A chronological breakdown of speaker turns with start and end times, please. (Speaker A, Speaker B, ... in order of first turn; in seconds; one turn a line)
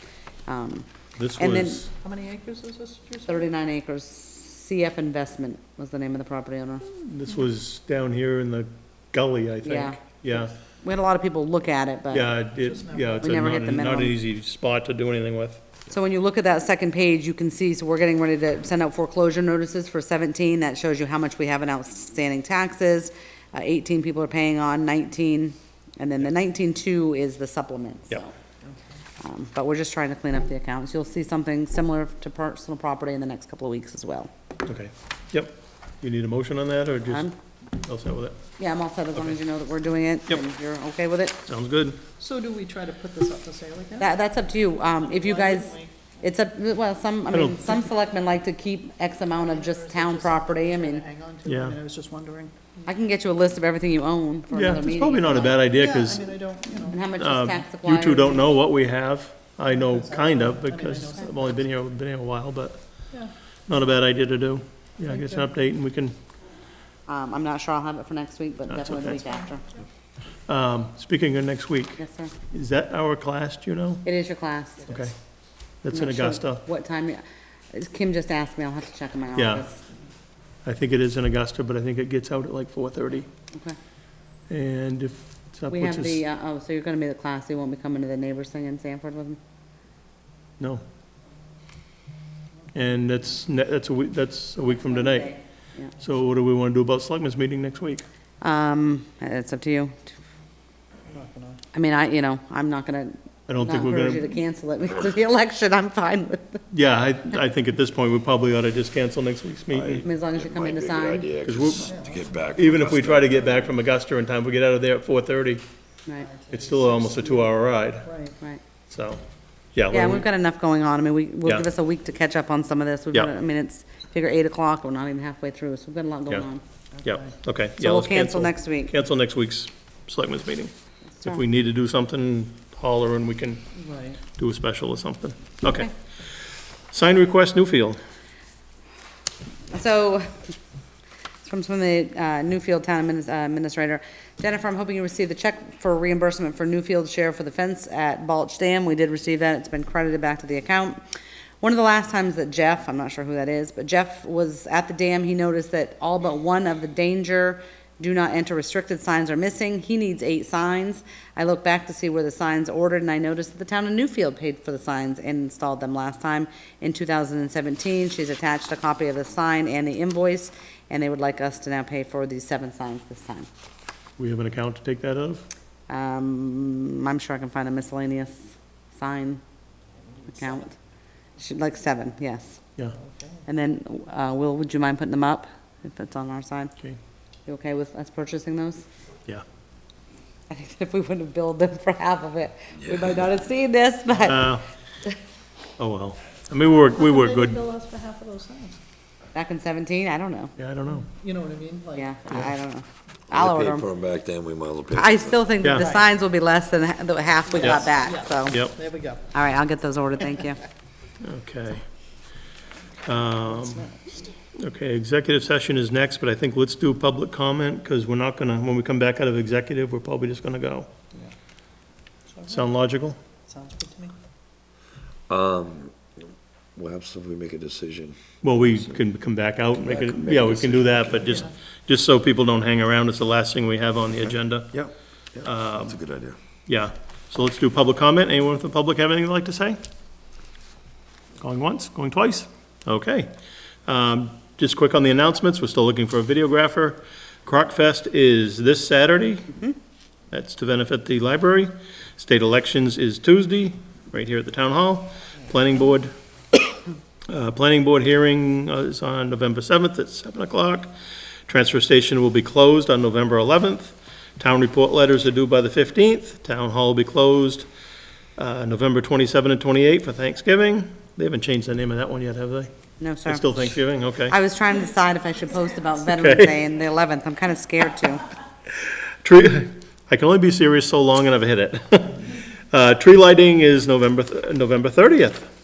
Speaker A: 0.5-1.9
Speaker B: 1.2-1.9
Speaker C: 1.9-3.5
Speaker A: 3.3-6.9
Speaker B: 7.0-10.5
Speaker A: 9.6-10.2
Speaker A: 10.8-12.3
Speaker B: 12.1-15.6
Speaker C: 12.6-13.3
Speaker A: 13.2-14.2
Speaker A: 15.9-28.3
Speaker A: 29.2-34.3
Speaker B: 34.6-37.2
Speaker A: 37.0-37.3
Speaker B: 37.8-38.3
Speaker A: 38.6-41.4
Speaker B: 41.5-42.0
Speaker C: 42.2-44.1
Speaker A: 44.0-51.0
Speaker C: 45.0-45.9
Speaker B: 47.3-47.6
Speaker C: 49.4-52.9
Speaker B: 51.5-51.7
Speaker A: 52.9-55.6
Speaker B: 54.5-56.2
Speaker C: 55.6-57.0
Speaker A: 56.8-58.5
Speaker B: 57.2-62.8
Speaker C: 59.7-61.5
Speaker B: 63.7-66.1
Speaker C: 65.1-65.4
Speaker A: 67.1-69.6
Speaker B: 68.7-69.0
Speaker B: 70.5-72.0
Speaker A: 72.0-72.3
Speaker B: 72.5-74.0
Speaker A: 74.0-74.9
Speaker B: 75.8-76.6
Speaker A: 75.9-77.2
Speaker A: 77.7-79.8
Speaker B: 79.3-79.6
Speaker B: 80.6-83.3
Speaker B: 84.5-86.1
Speaker A: 85.7-89.4
Speaker B: 92.7-95.3
Speaker A: 94.7-95.9
Speaker B: 96.0-98.0
Speaker A: 98.4-100.2
Speaker C: 101.1-101.6
Speaker A: 101.7-106.6
Speaker B: 103.5-104.2
Speaker B: 106.7-110.0
Speaker D: 109.7-113.7
Speaker A: 110.0-111.3
Speaker B: 111.4-111.9
Speaker C: 111.8-112.3
Speaker B: 112.5-115.6
Speaker C: 116.2-117.5
Speaker B: 116.5-118.0
Speaker C: 118.0-118.4
Speaker B: 118.9-119.2
Speaker B: 119.7-120.2
Speaker A: 119.9-126.6
Speaker C: 127.0-127.3
Speaker B: 127.0-130.7
Speaker A: 127.8-128.9
Speaker B: 131.2-133.6
Speaker C: 133.8-134.2
Speaker B: 134.4-135.9
Speaker A: 135.6-135.9
Speaker B: 136.9-138.0
Speaker A: 139.7-140.5
Speaker A: 141.4-151.0
Speaker A: 151.6-173.5
Speaker B: 174.2-175.4
Speaker A: 175.9-179.4
Speaker A: 180.3-180.8
Speaker A: 181.4-182.6
Speaker A: 183.4-186.7
Speaker A: 187.5-188.8
Speaker A: 190.5-195.1
Speaker B: 194.2-194.6
Speaker B: 195.8-197.6
Speaker C: 196.8-198.8
Speaker A: 199.3-200.5
Speaker B: 200.6-201.0
Speaker C: 201.0-202.1
Speaker A: 201.9-203.9
Speaker D: 203.3-205.7
Speaker A: 204.9-208.7
Speaker B: 205.6-205.9
Speaker C: 205.7-206.1
Speaker C: 207.5-209.3
Speaker A: 209.3-210.6
Speaker B: 211.2-211.8
Speaker B: 213.0-213.8
Speaker C: 213.4-214.3
Speaker B: 214.6-220.9
Speaker C: 222.3-222.7
Speaker B: 222.5-223.2
Speaker C: 223.5-224.1
Speaker D: 225.3-226.1
Speaker D: 226.8-228.9
Speaker B: 228.4-234.7
Speaker D: 229.8-231.3
Speaker D: 234.7-236.4
Speaker B: 235.4-235.9
Speaker B: 236.7-239.8
Speaker B: 241.4-243.3
Speaker B: 243.9-249.5
Speaker B: 250.3-256.1
Speaker B: 257.3-260.9
Speaker B: 261.5-267.6
Speaker B: 268.4-272.7
Speaker A: 273.0-273.5
Speaker B: 273.2-274.3
Speaker A: 274.3-278.2
Speaker B: 276.2-276.4
Speaker B: 279.2-282.1
Speaker B: 282.7-285.4